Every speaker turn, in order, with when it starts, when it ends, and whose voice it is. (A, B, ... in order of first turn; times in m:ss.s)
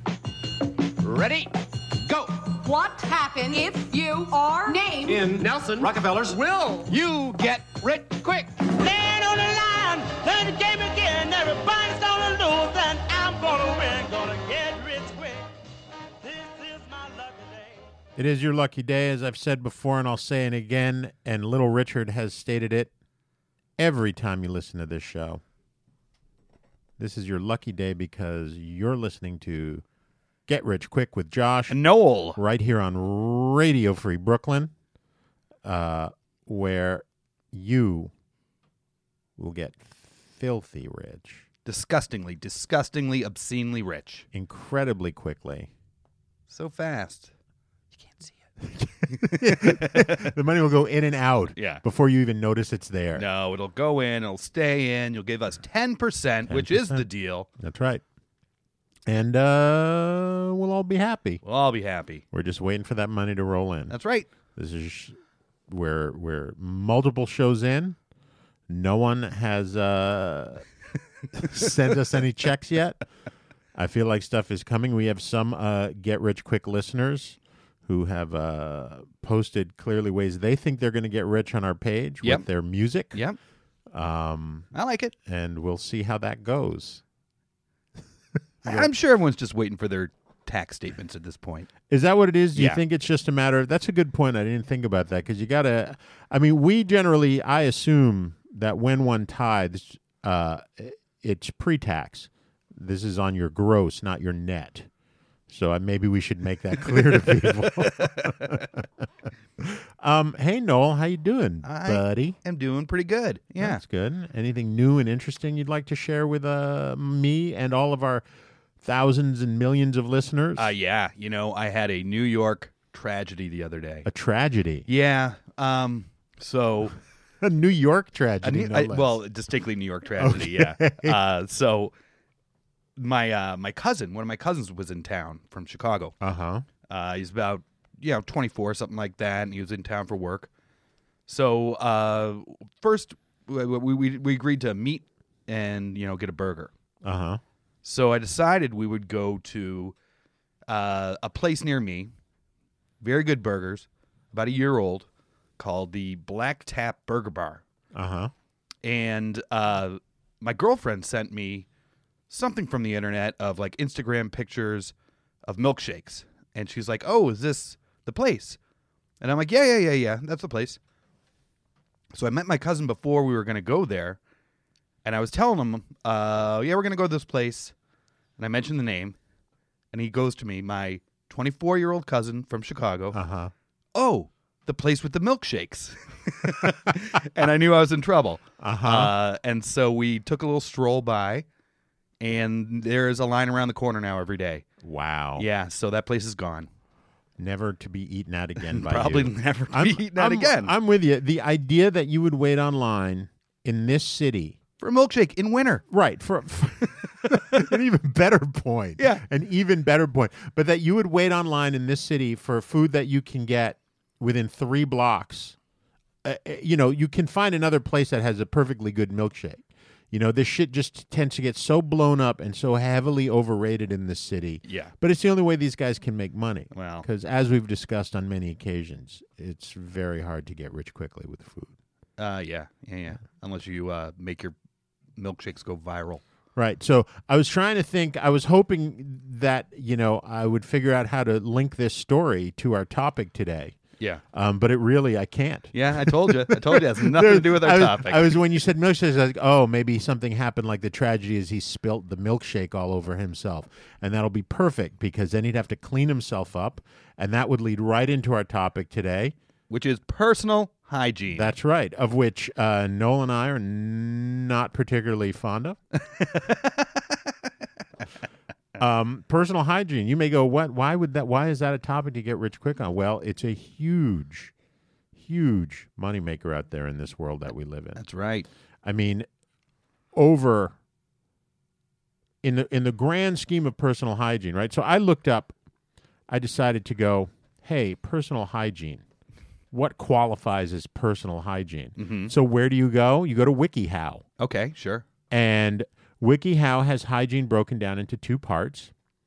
0:01.0-0:02.5 A
0:02.6-0:05.3 B
0:05.0-0:08.6 A
0:08.7-0:15.5 C
0:16.2-0:17.9 C
0:18.2-0:22.9 D
0:23.8-0:25.4 D
0:27.0-0:29.8 D
0:30.5-0:31.8 D
0:31.7-0:32.4 E
0:32.3-0:34.7 D
0:35.6-0:38.1 D
0:39.4-0:41.4 D
0:41.7-0:44.3 E
0:44.3-0:45.7 D
0:46.5-0:47.3 E
0:48.0-0:48.4 E
0:48.6-0:53.2 D
0:49.1-0:50.3 E
0:51.6-0:51.8 E
0:53.2-0:57.5 E
0:56.5-0:58.0 D
0:59.1-1:01.4 D
1:01.4-1:02.2 E
1:02.3-1:04.0 D
1:03.9-1:04.3 E
1:04.6-1:05.2 D
1:05.7-1:08.0 D
1:08.7-1:10.7 D
1:11.3-1:13.0 D
1:13.8-1:23.2 D
1:23.1-1:23.4 E
1:23.9-1:24.7 D
1:24.7-1:25.1 E
1:25.2-1:27.0 D
1:28.6-1:28.9 D
1:28.6-1:31.7 E
1:31.9-1:44.9 D
1:32.6-1:32.8 E
1:45.5-1:48.9 D
1:47.0-1:48.6 E
1:49.6-1:52.4 D
1:51.6-1:53.8 E
1:53.6-1:58.2 D
1:58.8-2:00.7 D
2:00.6-2:04.1 E
2:04.1-2:04.9 D
2:04.9-2:07.0 E
2:07.4-2:09.2 D
2:08.4-2:11.9 E
2:10.2-2:11.2 D
2:13.0-2:16.2 E
2:16.2-2:16.6 D
2:16.9-2:20.5 E
2:21.3-2:26.7 E
2:27.0-2:27.4 D
2:27.8-2:30.0 E
2:30.7-2:32.1 E
2:33.0-2:35.1 E
2:35.6-2:37.6 E
2:37.9-2:38.3 D
2:38.8-2:41.7 E
2:42.3-2:44.9 E
2:45.5-2:48.6 E
2:49.2-2:50.8 E
2:52.1-2:54.2 E
2:55.0-2:57.7 E
2:58.4-2:59.2 E
2:59.9-3:03.2 E
3:03.1-3:03.5 D
3:04.0-3:11.4 E
3:08.6-3:09.1 D
3:12.2-3:14.6 E
3:14.8-3:15.5 D
3:15.4-3:16.7 E
3:17.4-3:24.6 D
3:18.7-3:20.7 E
3:24.8-3:25.8 E
3:25.9-3:35.6 D
3:29.0-3:29.2 E
3:36.2-3:51.8 D
3:44.6-3:44.9 E
3:46.7-3:47.1 E
3:52.2-3:54.6 E
3:55.2-3:56.2 E
3:56.6-4:03.8 D
4:04.3-4:19.4 D
4:05.7-4:08.4 E
4:19.7-4:21.5 E
4:21.3-4:25.8 D
4:26.2-4:27.0 E
4:28.8-4:34.5 D
4:35.2-4:38.0 D
4:38.0-4:38.5 E
4:38.8-4:39.3 D
4:40.1-4:40.8 D
4:42.4-4:45.5 D
4:46.3-4:49.0 D
4:49.7-4:54.2 D
4:52.0-4:52.3 E
4:54.4-4:55.1 E
4:55.3-4:58.9 D